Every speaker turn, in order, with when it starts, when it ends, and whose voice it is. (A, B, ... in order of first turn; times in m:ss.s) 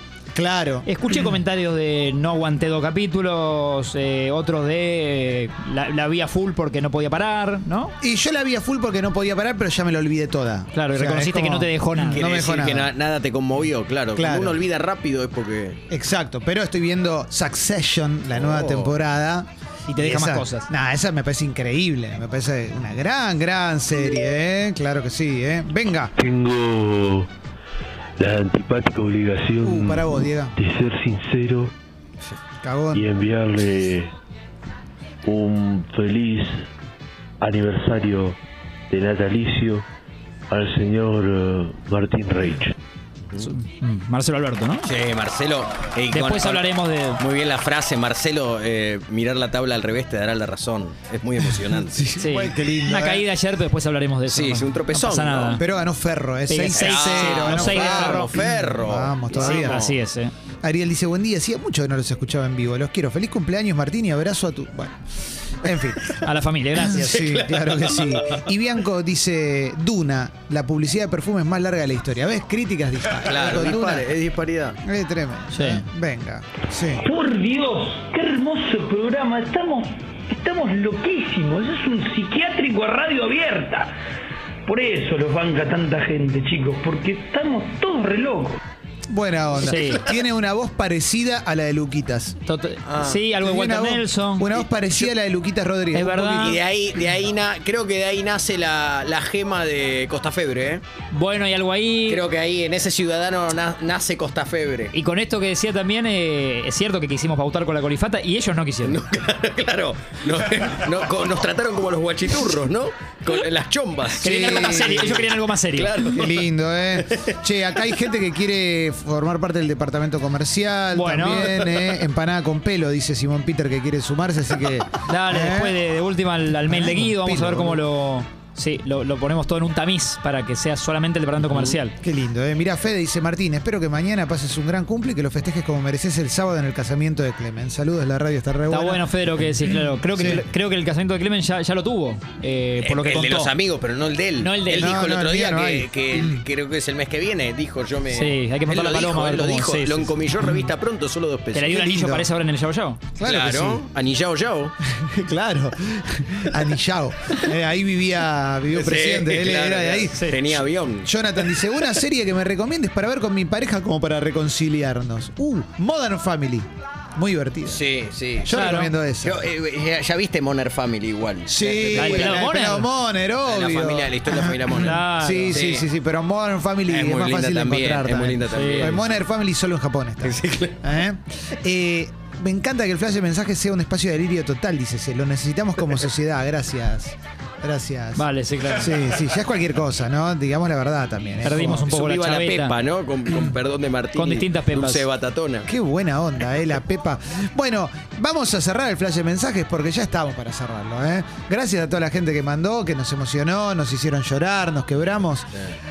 0:00.3-0:01.4 A
0:00.8-0:07.9 B
0:08.0-0:12.9 A
0:10.7-0:12.3 B
0:12.1-0:15.8 C
0:14.1-0:14.6 A
0:15.9-0:26.1 A
0:18.3-0:19.0 C
0:19.9-0:20.7 B
0:26.4-0:27.3 D
0:29.6-0:30.5 A
0:30.9-0:31.7 D
0:32.6-0:33.1 A
0:37.4-0:38.0 D
0:38.9-0:39.5 D
0:40.5-0:42.5 D
0:43.4-0:44.9 B
0:44.8-0:46.6 C
0:46.1-0:47.2 B
0:47.2-0:52.0 C
0:51.8-0:53.2 A
0:52.2-0:55.6 B
0:54.3-0:55.6 C
0:55.6-0:59.9 A
0:56.5-0:58.4 B
0:56.7-0:59.9 C
0:59.4-1:00.3 B
1:00.6-1:05.0 A
1:05.6-1:06.1 A
1:06.2-1:07.3 B
1:06.8-1:14.1 A
1:06.9-1:08.5 C
1:13.2-1:14.8 C
1:14.8-1:17.0 A
1:15.5-1:15.8 B
1:17.0-1:23.9 E
1:24.7-1:28.6 E
1:29.1-1:32.4 A
1:29.6-1:30.0 B
1:32.4-1:34.5 B
1:32.8-1:33.2 C
1:33.4-1:36.6 A
1:34.5-1:35.1 C
1:35.9-1:36.6 B
1:36.4-1:40.8 C
1:41.1-1:42.2 B
1:42.1-1:44.9 C
1:44.9-1:49.0 B
1:48.8-1:55.1 C
1:54.2-1:55.2 A
1:54.2-1:55.9 B
1:55.7-1:56.4 C
1:56.0-2:05.8 A
2:00.9-2:01.6 B
2:05.1-2:11.9 B
2:06.7-2:07.8 A
2:12.0-2:19.1 A
2:18.7-2:23.5 B
2:19.9-2:20.4 A
2:22.8-2:31.7 C
2:24.4-2:25.1 B
2:24.7-2:26.4 A
2:28.1-2:30.1 B
2:31.5-2:33.0 B
2:31.7-2:32.3 A
2:33.2-2:33.8 A
2:33.2-2:34.7 C
2:35.0-2:47.8 A
2:38.7-2:41.1 C
2:47.6-2:48.5 C
2:48.4-2:49.4 A
2:48.5-2:48.9 B
2:49.2-2:52.4 C
2:51.5-3:11.9 A
2:51.9-2:52.9 B
2:53.4-2:55.9 C
2:54.7-2:55.6 B
2:56.9-2:59.1 C
2:58.5-2:59.0 B
3:00.2-3:00.9 C
3:08.2-3:09.0 B
3:11.4-3:12.7 B
3:11.7-3:15.7 C
3:14.1-3:15.1 B
3:15.6-3:25.5 A